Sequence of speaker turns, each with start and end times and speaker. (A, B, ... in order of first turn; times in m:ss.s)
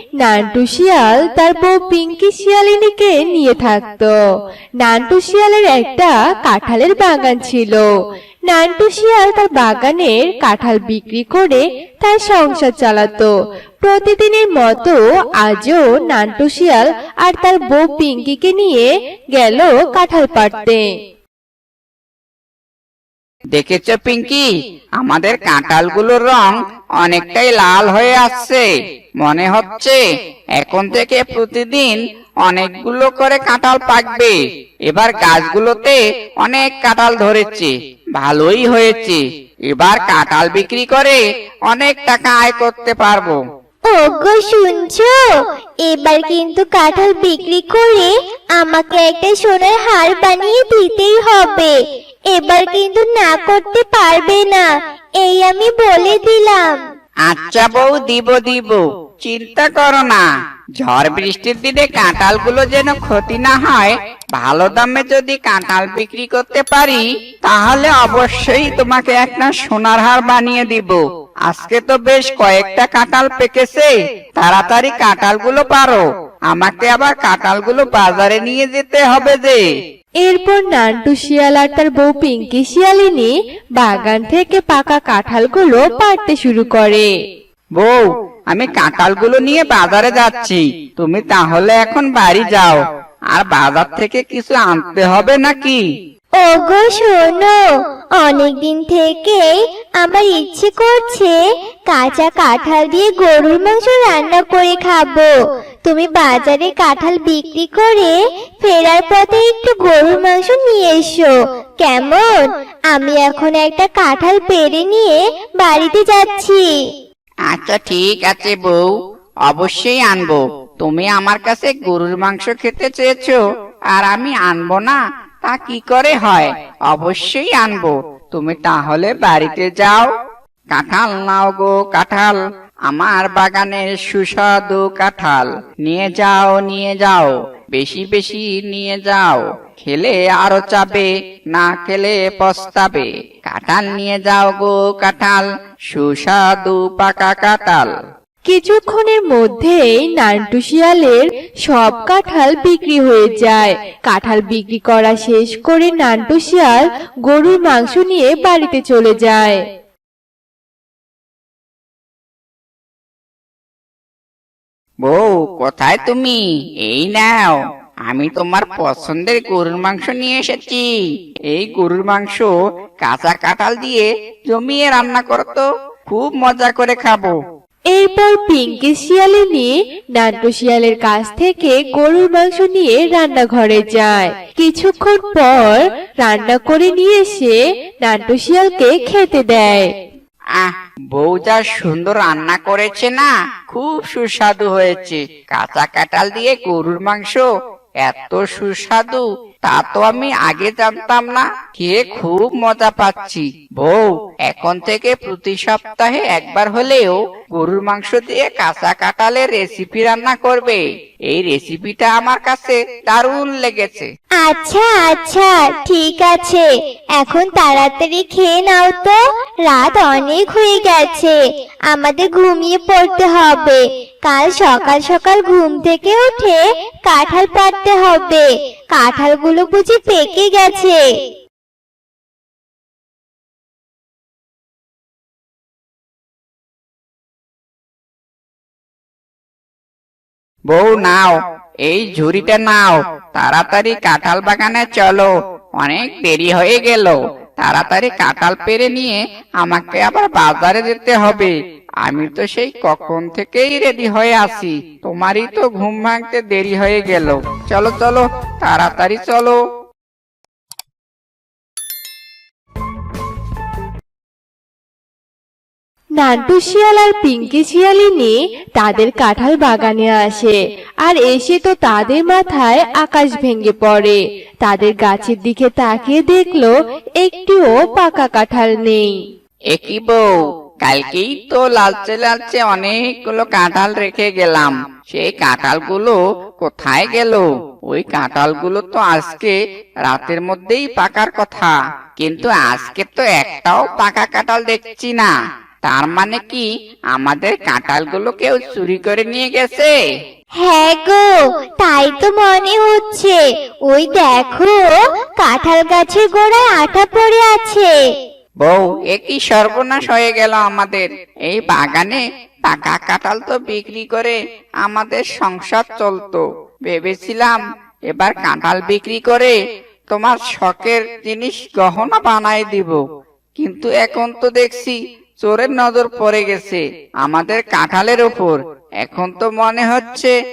0:00.2-0:04.1 A
0:04.8-0:07.9 A
0:08.5-0:20.8 A
0:23.5-0:24.5 B
0:25.0-0:28.6 B
0:29.2-0:30.0 B
0:30.6-0:34.4 B
0:34.9-0:43.4 B
0:43.9-0:45.2 C
0:45.8-0:51.8 C
0:52.3-0:54.7 C
0:55.2-0:56.8 C
0:57.3-1:00.2 B
1:00.8-1:19.6 B
1:20.2-1:27.1 A
1:27.8-1:32.8 B
1:33.3-1:35.8 B
1:36.4-1:37.6 C
1:38.2-1:41.4 C
1:41.9-1:45.3 C
1:45.8-1:56.7 C
1:57.5-1:58.9 B
1:59.5-2:03.4 B
2:03.9-2:10.1 B
2:10.7-2:27.9 B
2:28.5-2:39.6 A
2:45.0-2:47.6 B
2:48.1-2:50.9 B
2:51.5-2:57.4 B
2:57.9-3:09.9 A
3:10.6-3:17.4 B
3:18.0-3:34.1 B
3:34.4-3:41.4 C
3:41.9-3:51.0 C
4:00.7-4:19.6 B
4:26.2-4:39.1 A
4:39.7-4:40.3 B
4:40.8-4:49.6 B
4:50.1-4:55.3 B
4:55.9-4:59.9 B
5:00.6-5:07.9 C
5:08.6-5:17.6 B
5:18.1-5:19.6 B
5:20.1-5:23.0 B
5:23.6-5:30.3 B